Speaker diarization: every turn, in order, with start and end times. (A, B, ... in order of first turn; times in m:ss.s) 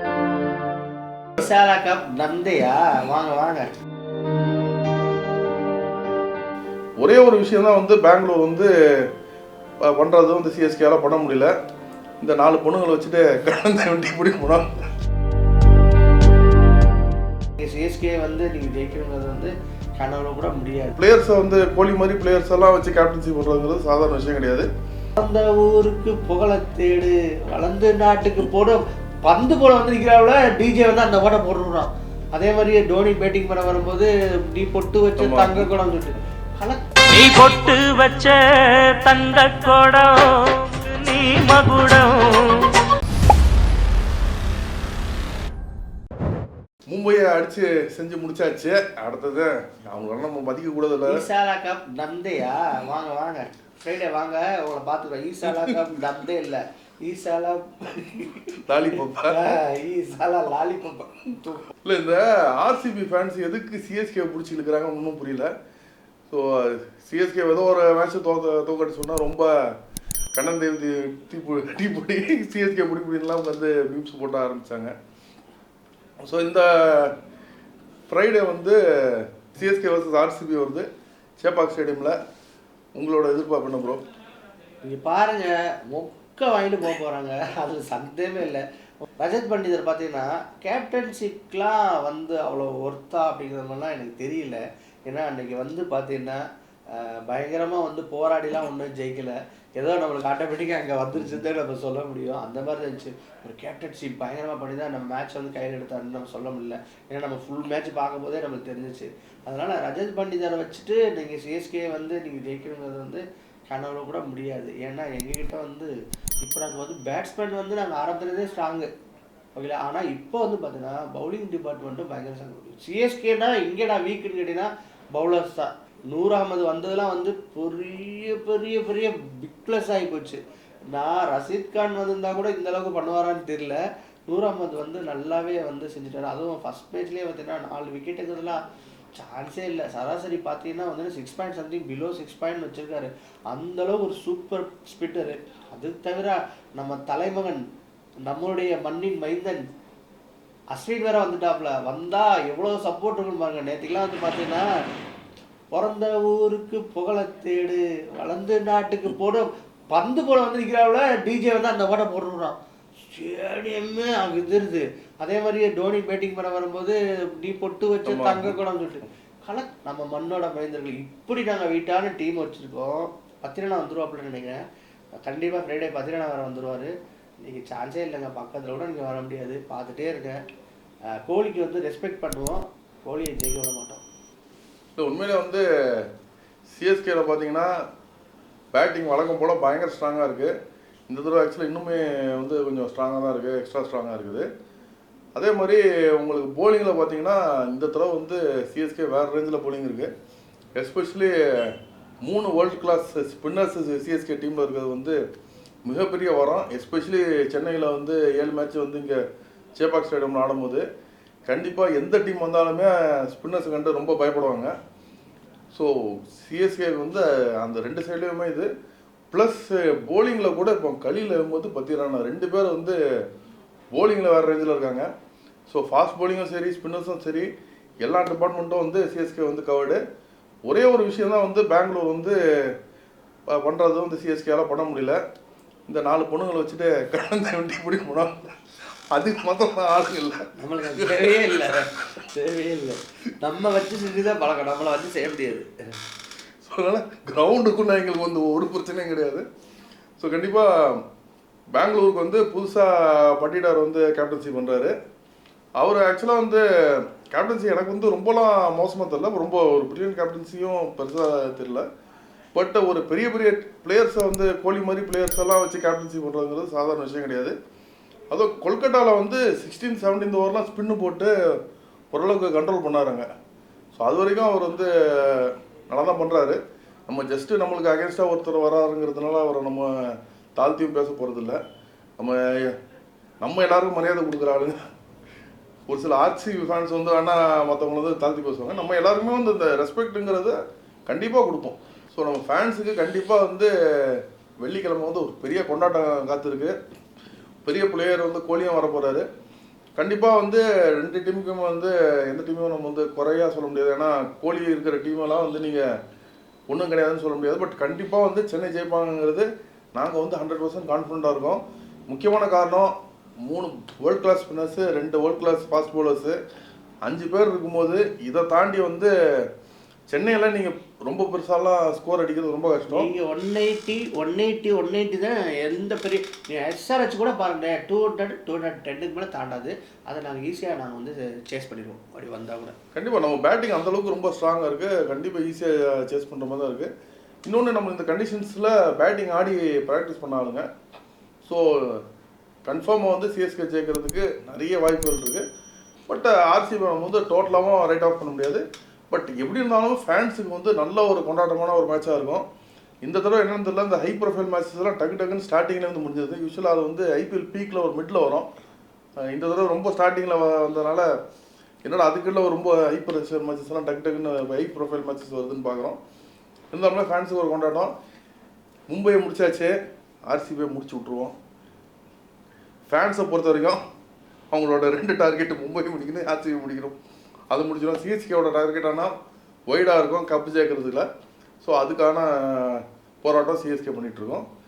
0:01.4-0:03.7 A
0:07.0-0:08.7 B
0:09.8-0:11.5 B
0:12.2-0:14.7 B
0:17.6-0:21.0 A
0:21.0-0:24.7 B
0:25.2-0:38.0 A
0:35.2-0:35.7 B
0:37.2-0:42.6 C
0:39.2-0:40.2 A
0:41.2-0:42.6 A
0:46.9-0:51.2 B
0:51.1-1:01.7 A
0:55.5-0:56.0 B
0:58.6-0:59.4 B
1:01.8-1:05.5 B
1:06.3-1:09.7 B
1:10.3-1:14.9 B
1:16.2-1:17.1 B
1:18.1-1:20.9 B
1:21.4-1:22.2 B
1:23.0-1:24.0 B
1:24.8-1:28.6 A
1:29.2-1:58.9 A
1:59.6-2:18.6 A
2:19.2-2:27.6 A
2:28.2-2:29.6 A
2:30.7-2:34.7 A
2:35.7-2:54.6 A
2:48.1-2:48.6 B
2:55.2-2:56.9 A
2:57.4-3:00.4 A
3:01.1-3:04.0 A
3:05.0-3:06.1 B
3:06.7-3:07.7 B
3:08.7-3:10.5 B
3:11.1-3:14.5 B
3:15.4-3:20.1 B
3:20.8-3:25.2 B
3:25.8-3:29.2 B
3:29.8-3:30.8 B
3:31.5-3:34.7 B
3:35.7-3:38.7 B
3:39.3-3:43.0 B
3:43.9-3:45.1 B
3:45.7-3:47.5 B
3:48.0-3:50.0 B
3:50.7-3:52.7 B
3:53.5-3:55.2 B
3:55.9-3:58.6 B
3:59.1-4:01.9 B
4:00.6-4:05.7 A
4:06.6-4:09.4 B
4:10.2-4:11.0 B
4:11.7-4:14.9 B
4:15.8-4:21.8 B
4:22.6-4:27.6 B
4:28.3-4:31.6 B
4:32.1-4:33.3 B
4:34.0-4:41.6 B
4:42.2-4:42.8 B
4:43.4-4:44.8 B
4:45.9-4:56.8 B
4:57.6-4:59.2 B
5:00.0-5:05.9 B
5:06.7-5:12.9 B
5:13.4-5:16.4 B
5:17.0-5:19.1 B
5:20.1-5:23.1 B
5:22.9-5:32.8 A
5:32.9-5:36.9 B
5:37.4-5:40.7 B
5:41.4-5:42.0 B
5:42.7-5:45.4 B
5:46.1-5:52.4 B
5:53.0-5:58.5 B
5:59.2-6:01.1 B
6:01.8-6:06.0 B
6:06.7-6:07.9 B
6:08.9-6:09.7 B
6:10.3-6:11.4 B
6:12.9-6:13.8 B
6:14.5-6:17.0 B
6:17.5-6:19.1 B
6:19.7-6:21.1 B
6:21.6-6:24.4 B